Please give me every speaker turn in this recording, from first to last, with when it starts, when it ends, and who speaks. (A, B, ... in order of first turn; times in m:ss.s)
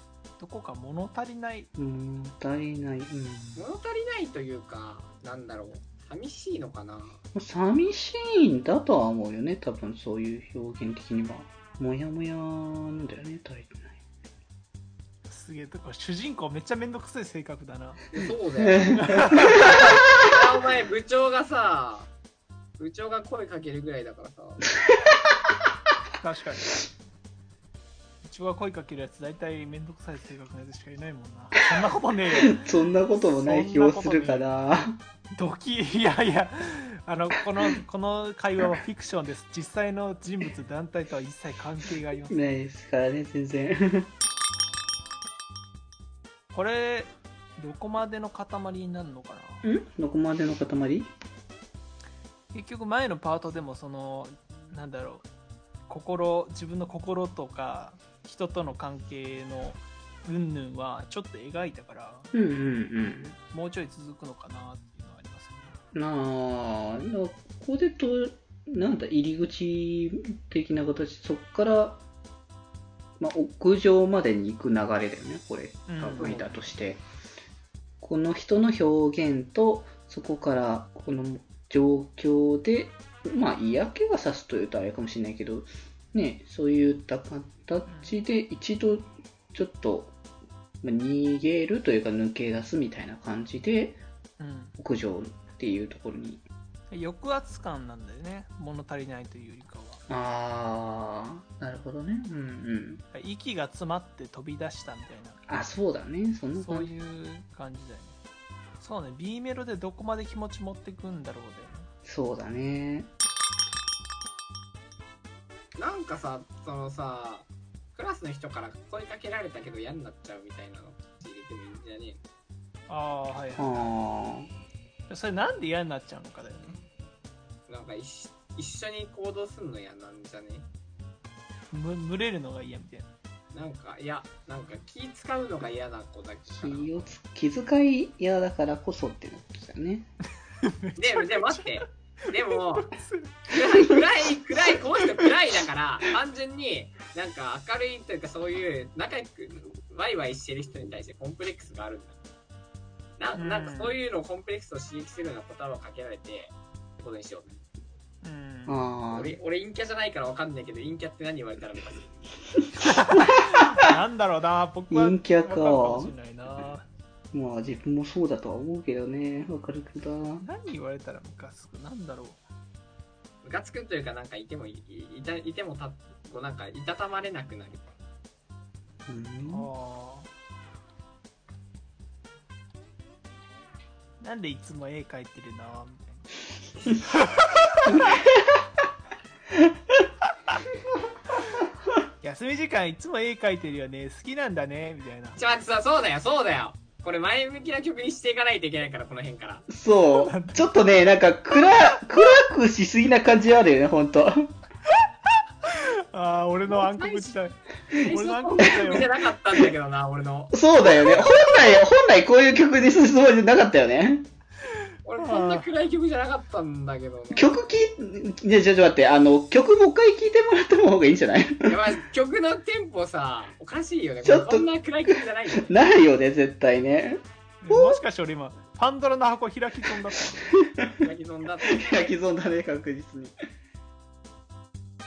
0:00.4-0:01.7 A
0:01.8-0:03.7 B
0:03.6-0:07.2 C
0:07.3-0:14.0 B
0:15.3-0:18.0 A
0:18.1-0:22.1 C
0:18.6-0:20.0 B
0:19.0-0:19.9 A
0:22.8-0:24.7 C
0:26.2-0:26.8 A
0:28.2-0:34.5 A
0:32.4-0:35.0 B
0:35.3-0:42.5 A
0:42.3-0:44.1 B
0:46.5-0:49.7 A
0:49.6-0:51.1 B
0:52.5-0:55.3 A
0:55.9-1:02.3 A
1:02.3-1:03.4 B
1:03.4-1:05.8 A
1:05.9-1:12.0 B
1:13.2-1:17.0 B
1:15.9-1:16.5 A
1:16.2-1:16.6 C
1:18.0-1:30.2 B
1:27.9-1:28.2 A
1:30.8-1:34.0 B
1:34.4-1:34.8 A
1:34.8-1:36.4 B
1:36.9-1:40.0 A
1:40.1-1:43.0 B
1:43.1-1:45.4 A
1:45.5-1:46.9 B
1:46.6-1:48.2 A
1:48.8-1:51.9 A
1:52.0-1:53.1 B
1:55.8-2:02.2 C
2:02.9-2:03.9 A
2:03.6-2:04.5 B
2:05.1-2:06.8 A
2:07.7-2:10.7 C
2:11.7-2:13.1 A
2:13.5-2:17.1 C
2:16.5-2:20.1 B
2:20.6-2:23.7 A
2:21.0-2:22.9 C
2:23.5-2:32.2 C
2:33.2-2:37.6 C
2:33.4-2:34.0 A
2:38.2-2:38.8 A
2:38.7-2:39.4 B
2:39.1-2:42.1 C
2:42.8-2:46.9 A
2:44.9-2:46.1 B
2:47.3-2:50.4 B
2:50.4-2:52.4 A
2:53.4-2:57.9 C
2:59.1-2:59.7 B
2:59.5-3:00.3 A
3:04.2-3:06.3 A
3:06.8-3:07.0 C
3:07.1-3:08.0 A
3:12.2-3:15.4 A
3:15.4-3:19.7 C
3:19.7-3:24.5 B
3:20.2-3:20.7 A
3:25.6-3:29.1 A
3:26.7-3:27.4 C
3:28.0-3:31.3 C
3:30.5-3:34.3 B
3:35.1-3:37.6 C
3:35.2-3:35.7 A
3:37.3-3:41.8 B
3:41.7-3:45.9 C
3:44.2-3:48.0 B
3:47.6-3:50.5 A
3:50.6-3:51.1 B
3:51.0-3:52.1 C
3:51.6-3:53.4 B